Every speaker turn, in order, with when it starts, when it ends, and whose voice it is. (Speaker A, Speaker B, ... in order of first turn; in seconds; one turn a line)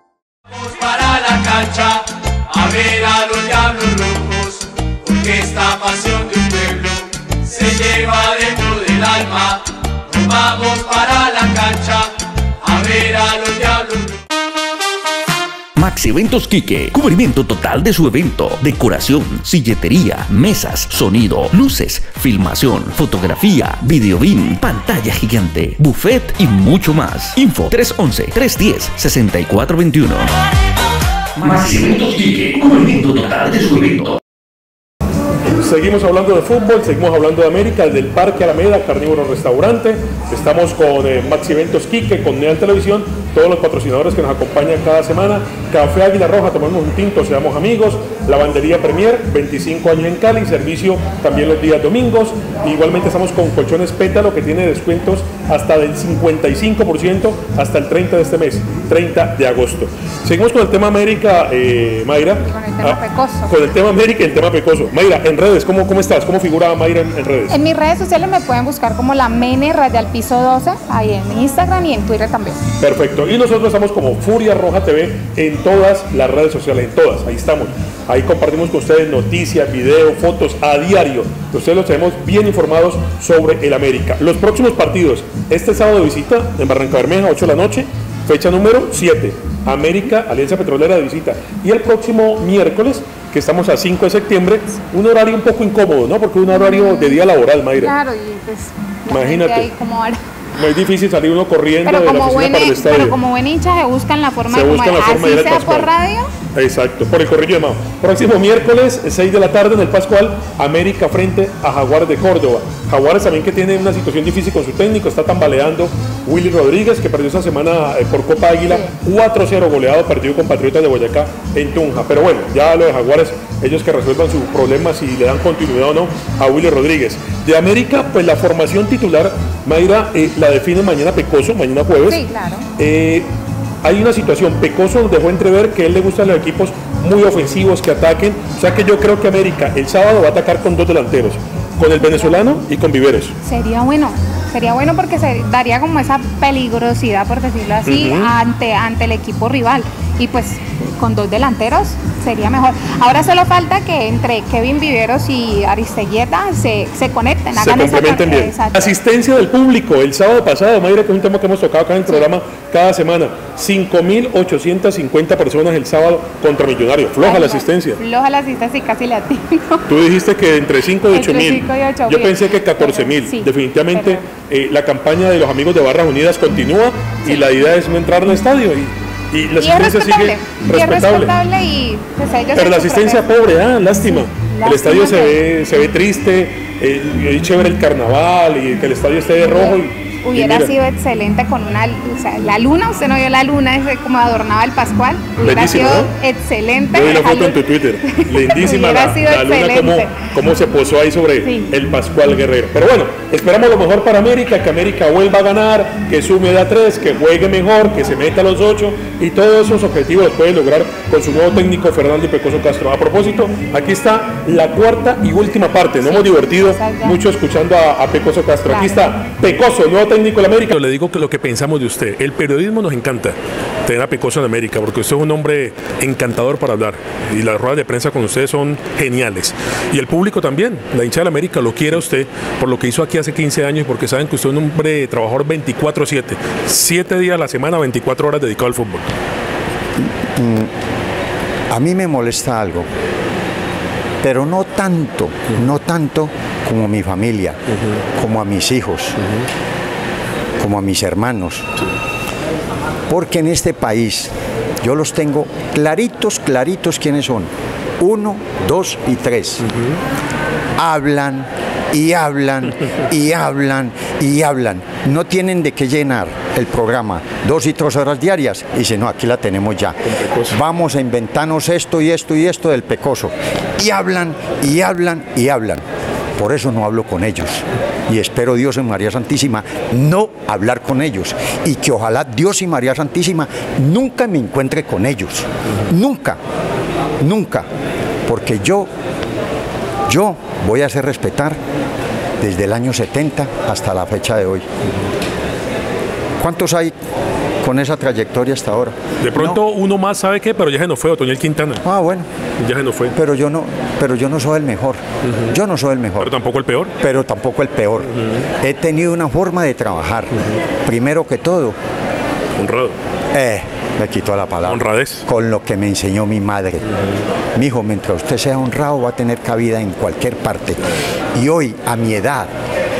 Speaker A: 0.6-14.2
Speaker B: 15.8-30.3
Speaker B: 31.4-34.2
Speaker C: 35.5-67.6
Speaker D: 62.4-63.5
Speaker D: 67.5-72.6
Speaker C: 72.8-97.9
Speaker D: 96.5-100.2
Speaker C: 99.1-99.7
Speaker C: 100.5-103.2
Speaker D: 101.8-106.3
Speaker C: 104.5-105.9
Speaker C: 106.5-132.2
Speaker D: 132.1-132.7
Speaker C: 132.8-133.3
Speaker C: 133.8-143.3
Speaker D: 142.0-142.4
Speaker D: 143.4-158.9
Speaker C: 147.8-148.3
Speaker C: 157.6-168.0
Speaker D: 167.2-169.8
Speaker C: 169.9-181.4
Speaker D: 171.1-174.2
Speaker D: 177.2-177.7
Speaker D: 179.6-183.3
Speaker C: 182.5-190.7
Speaker D: 184.0-185.4
Speaker D: 189.4-200.1
Speaker C: 195.4-196.1
Speaker C: 196.9-239.1
Speaker D: 201.4-201.7
Speaker D: 216.0-217.2
Speaker D: 218.7-219.1
Speaker E: 240.0-240.7
Speaker E: 241.7-242.9
Speaker E: 244.2-247.6
Speaker C: 247.7-248.0
Speaker E: 248.2-249.2
Speaker E: 250.6-251.7
Speaker E: 253.1-259.6
Speaker C: 259.6-260.0
Speaker E: 260.8-275.8
Speaker C: 270.1-270.6
Speaker E: 276.4-286.4
Speaker E: 287.2-287.7
Speaker E: 288.2-288.9
Speaker E: 290.1-291.6
Speaker E: 292.4-294.7
Speaker E: 296.4-296.9
Speaker E: 297.6-299.6
Speaker C: 299.2-301.8
Speaker E: 301.8-302.3
Speaker C: 302.6-303.1
Speaker E: 303.1-306.3
Speaker C: 305.2-305.5
Speaker C: 306.2-306.9
Speaker E: 307.0-311.8
Speaker C: 308.1-308.4
Speaker C: 312.6-313.0
Speaker E: 313.3-316.9
Speaker C: 314.6-315.2
Speaker E: 317.5-320.8
Speaker E: 321.3-322.5